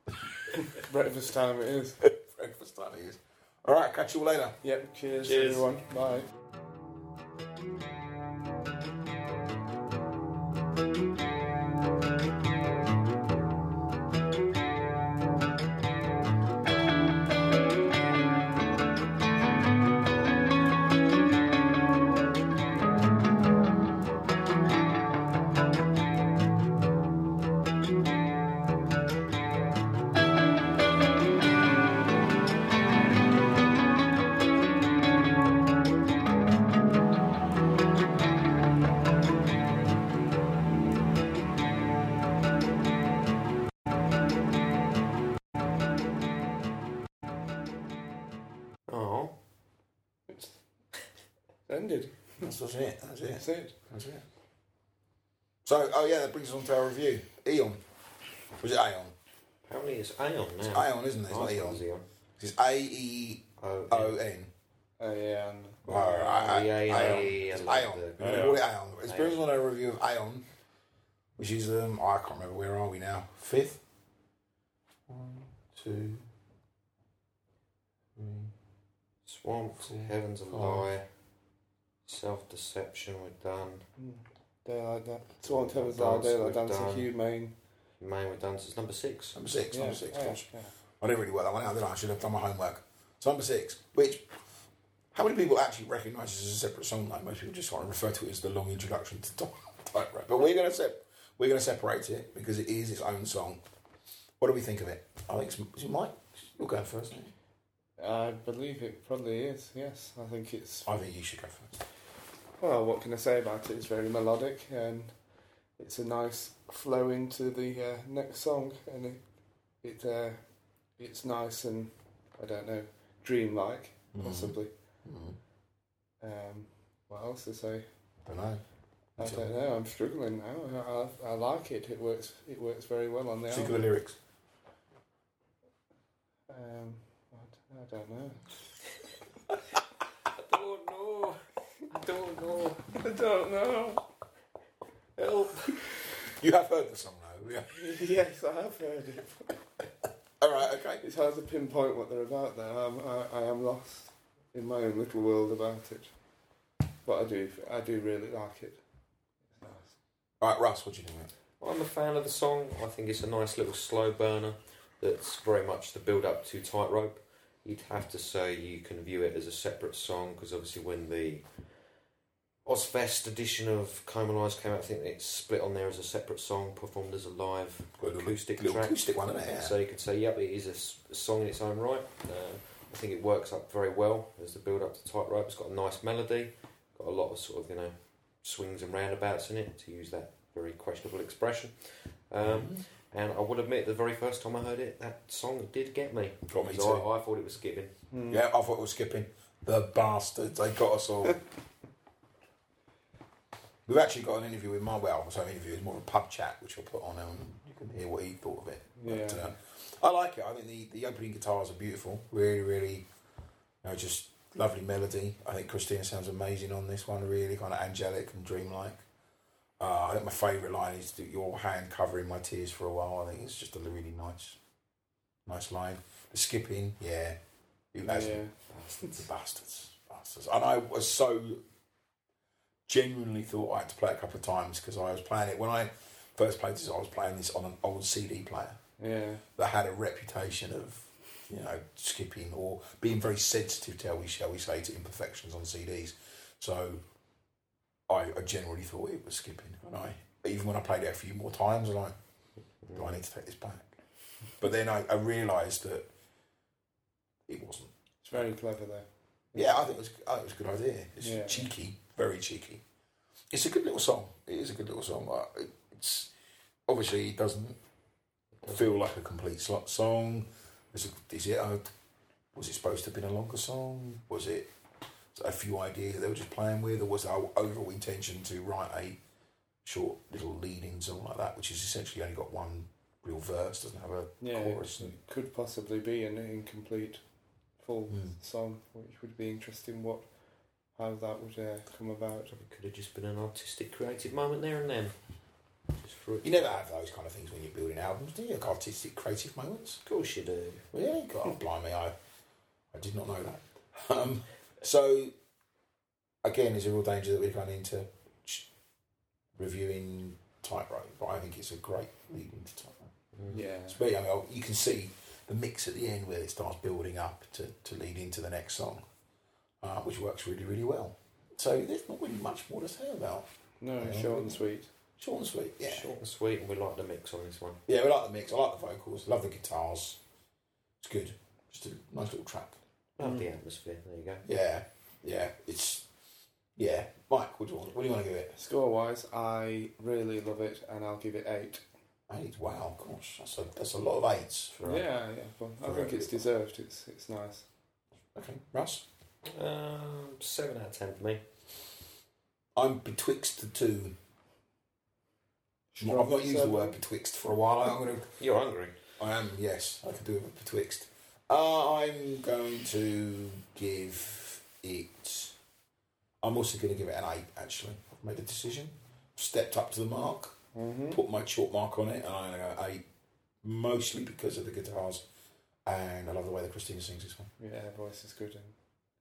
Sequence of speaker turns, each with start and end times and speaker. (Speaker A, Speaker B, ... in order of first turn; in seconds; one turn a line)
Speaker A: 0.5-2.0
Speaker B: 2.0-4.6
Speaker A: 4.6-6.3
Speaker C: 5.2-5.7
Speaker C: 48.9-49.4
Speaker A: 50.3-50.6
Speaker A: 51.7-52.5
Speaker B: 52.4-54.2
Speaker A: 53.4-53.7
Speaker B: 55.6-57.8
Speaker B: 58.6-59.1
Speaker C: 59.6-62.0
Speaker B: 60.6-61.8
Speaker B: 62.4-64.5
Speaker C: 63.6-64.2
Speaker A: 65.0-67.2
Speaker B: 65.9-70.5
Speaker C: 66.4-69.4
Speaker B: 71.4-73.8
Speaker B: 75.1-76.3
Speaker B: 78.2-78.5
Speaker C: 79.2-81.1
Speaker B: 79.8-80.9
Speaker C: 82.1-83.9
Speaker A: 84.0-87.5
Speaker C: 85.5-87.1
Speaker C: 88.0-89.4
Speaker B: 89.3-90.5
Speaker A: 89.7-90.8
Speaker B: 91.0-94.3
Speaker B: 95.1-103.6
Speaker B: 104.4-107.3
Speaker A: 108.0-110.9
Speaker B: 110.8-111.8
Speaker A: 112.6-115.2
Speaker A: 115.8-119.2
Speaker A: 119.8-120.4
Speaker A: 121.0-124.7
Speaker B: 124.1-125.4
Speaker A: 126.2-127.9
Speaker B: 128.2-128.6
Speaker B: 129.2-129.5
Speaker A: 129.2-133.9
Speaker B: 133.5-134.2
Speaker A: 136.5-138.6
Speaker C: 140.3-142.8
Speaker A: 142.9-144.1
Speaker C: 145.2-145.6
Speaker B: 146.2-147.7
Speaker A: 147.7-149.6
Speaker B: 150.4-151.0
Speaker A: 151.0-156.1
Speaker A: 157.1-158.8
Speaker A: 159.6-159.9
Speaker B: 160.4-161.3
Speaker C: 161.6-171.7
Speaker C: 172.7-197.9
Speaker B: 178.0-179.8
Speaker B: 192.4-192.8
Speaker B: 196.5-197.1
Speaker A: 198.1-198.4
Speaker B: 198.3-201.4
Speaker B: 203.9-213.1
Speaker A: 209.0-209.6
Speaker B: 213.8-219.0
Speaker B: 219.8-224.6
Speaker B: 225.5-227.4
Speaker B: 227.9-228.5
Speaker A: 228.0-228.5
Speaker C: 228.7-229.0
Speaker B: 229.0-231.6
Speaker B: 232.9-238.8
Speaker A: 239.0-239.4
Speaker B: 239.6-247.0
Speaker B: 248.1-252.2
Speaker C: 252.8-253.2
Speaker B: 252.9-254.0
Speaker B: 254.6-256.1
Speaker B: 257.5-257.9
Speaker A: 258.2-259.8
Speaker B: 259.5-262.8
Speaker A: 261.2-261.7
Speaker B: 263.5-266.3
Speaker B: 266.9-267.8
Speaker C: 268.6-268.9
Speaker B: 268.6-271.9
Speaker B: 272.5-274.7
Speaker B: 275.3-279.2
Speaker B: 279.8-285.2
Speaker A: 284.4-287.2
Speaker A: 287.8-290.3
Speaker B: 288.1-288.4
Speaker A: 290.9-292.5
Speaker C: 292.5-295.1
Speaker C: 295.9-296.8
Speaker B: 296.4-300.0
Speaker C: 300.1-300.9
Speaker B: 300.9-302.1
Speaker B: 302.9-305.3
Speaker B: 306.4-308.7
Speaker B: 309.6-313.1
Speaker C: 313.3-313.6
Speaker A: 313.5-314.0
Speaker B: 313.9-319.1
Speaker B: 319.8-324.6
Speaker A: 323.8-324.9
Speaker B: 325.2-326.1
Speaker C: 325.9-327.8
Speaker B: 327.9-330.2
Speaker B: 331.0-332.8
Speaker C: 333.2-334.5
Speaker B: 334.4-336.1
Speaker B: 336.8-338.6
Speaker A: 338.6-341.8
Speaker B: 342.3-344.8
Speaker C: 344.8-345.0
Speaker A: 344.8-347.7
Speaker B: 345.8-346.4
Speaker B: 348.3-349.1
Speaker C: 349.4-351.4
Speaker B: 352.8-354.2
Speaker A: 355.9-357.0
Speaker B: 356.0-358.3
Speaker C: 358.4-359.0
Speaker B: 359.2-365.6
Speaker B: 366.4-370.6
Speaker A: 370.7-371.2
Speaker B: 371.1-373.1
Speaker B: 373.6-375.2
Speaker B: 375.9-377.5
Speaker A: 377.6-378.8